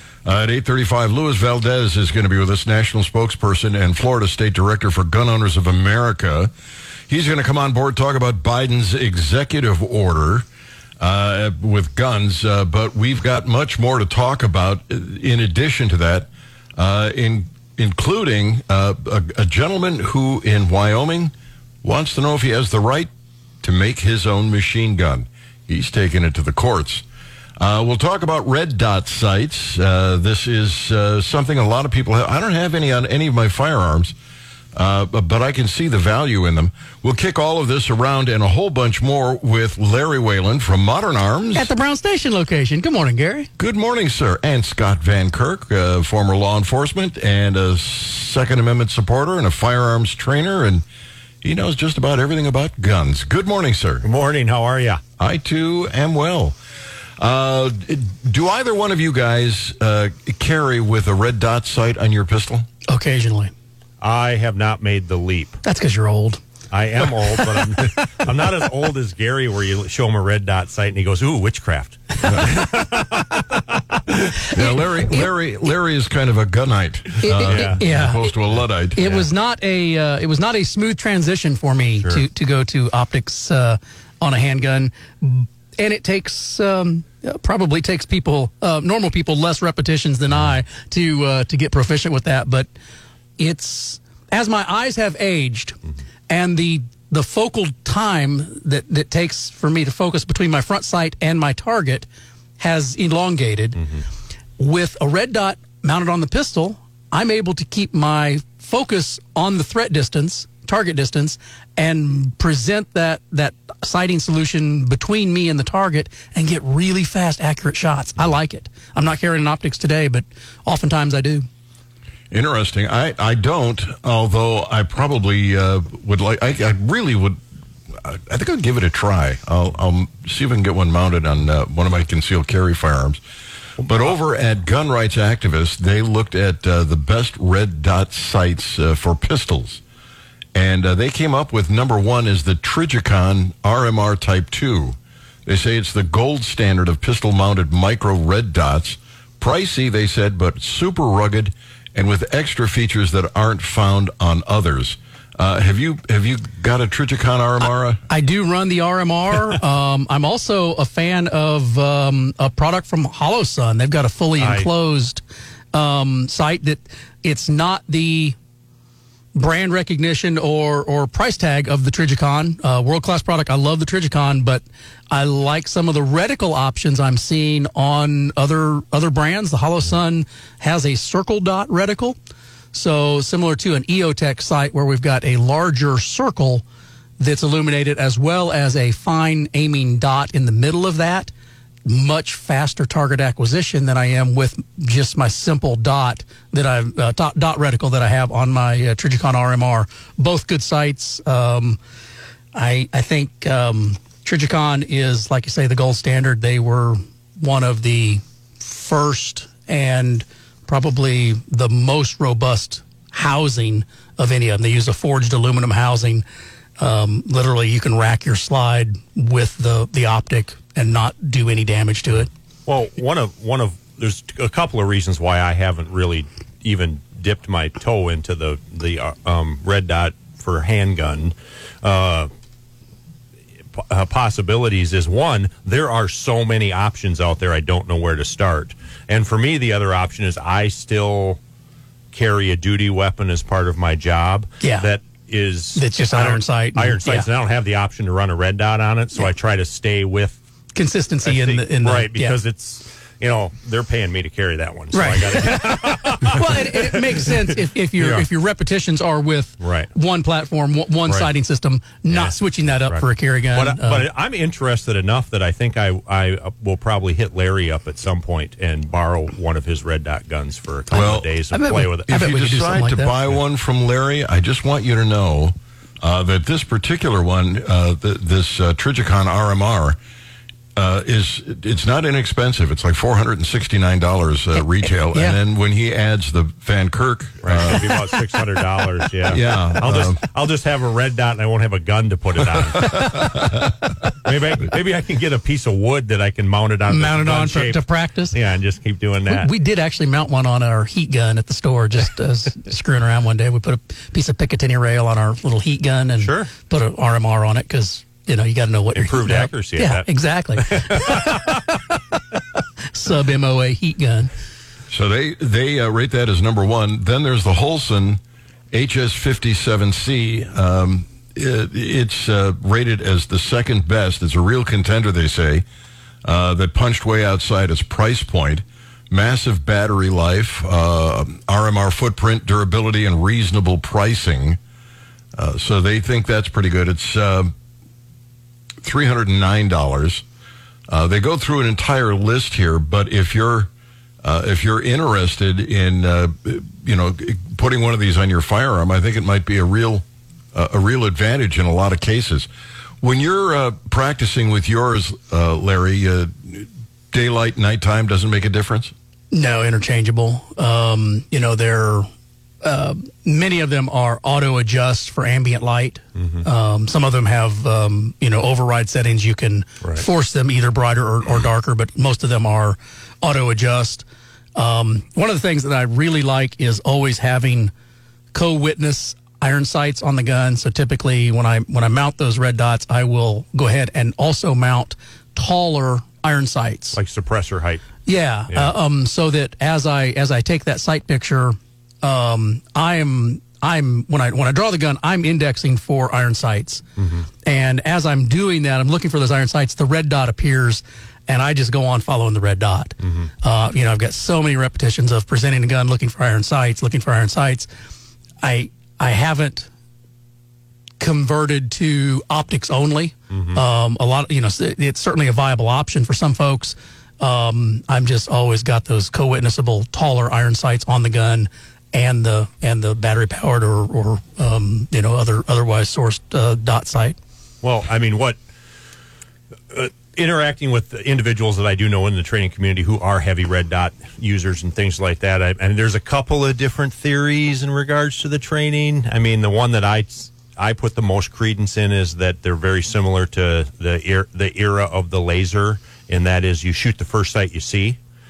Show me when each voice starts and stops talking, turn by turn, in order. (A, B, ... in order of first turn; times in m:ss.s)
0:00.2-0:06.5 A
0:07.1-0:10.4 A
0:11.0-0:23.1 A
0:23.6-0:27.0 A
0:27.6-0:34.1 A
0:34.7-0:41.7 A
0:41.5-0:43.5 B
0:43.6-0:50.8 A
0:51.4-0:54.0 A
0:54.0-0:55.0 C
0:55.2-0:56.6 A
0:57.2-1:02.6 A
1:02.9-1:03.5 B
1:04.0-1:05.6 C
1:05.6-1:06.4 B
1:06.7-1:13.4 C
1:12.2-1:12.6 A
1:14.4-1:15.3 B
1:14.4-1:19.1 A
1:17.2-1:18.3 B
1:17.3-1:17.8 C
1:19.0-1:32.7 B
1:19.0-1:19.3 C
1:33.4-1:35.8 B
1:36.3-1:42.1 B
1:42.6-1:43.8 B
1:44.6-2:01.5 B
2:02.3-2:07.4 A
2:08.0-2:13.2 A
2:13.8-2:19.8 A
2:20.5-2:38.0 A
2:38.1-2:48.4 B
2:44.4-2:44.7 C
2:49.3-3:02.2 B
3:02.7-3:06.6 B
3:07.2-3:11.3 B
3:11.8-3:21.8 B
3:22.5-3:36.2 B
3:36.8-3:42.3 B
3:42.6-3:52.3 C
3:53.7-4:01.4 C
4:02.1-4:10.4 C
4:04.6-4:04.9 B
4:05.7-4:07.3 B
4:10.7-4:12.4 B
4:11.2-4:18.3 C
4:14.9-4:24.0 B
4:19.6-4:19.9 C
4:22.1-4:32.2 C
4:30.9-4:31.3 A
4:30.9-4:33.1 B
4:32.1-4:40.0 A
4:40.8-4:48.2 A
4:47.4-4:53.4 C
4:49.3-4:50.2 A
4:52.7-4:53.8 A
4:54.1-4:59.5 C
4:56.9-4:58.4 B
4:59.2-5:12.0 B
5:06.2-5:06.5 C
5:08.9-5:11.5 C
5:12.9-5:14.3 B
5:14.9-5:18.2 A
5:18.7-5:25.6 A
5:26.2-5:34.6 A
5:35.4-5:37.5 A
5:38.8-5:40.2 A
5:40.9-5:43.7 A
5:44.2-5:52.5 A
5:53.0-5:58.9 A
5:59.3-6:02.1 B
6:02.6-6:17.7 B
6:06.2-6:06.4 C
6:18.3-6:27.0 B
6:26.9-6:27.8 C
6:28.0-6:36.8 B
6:28.5-6:28.7 C
6:37.0-6:37.3 C
6:37.4-6:47.7 B
6:43.0-6:43.3 C
6:48.4-6:49.7 B
6:51.0-7:07.2 B
6:53.3-6:53.6 C
7:07.6-7:08.4 C
7:09.7-7:28.0 C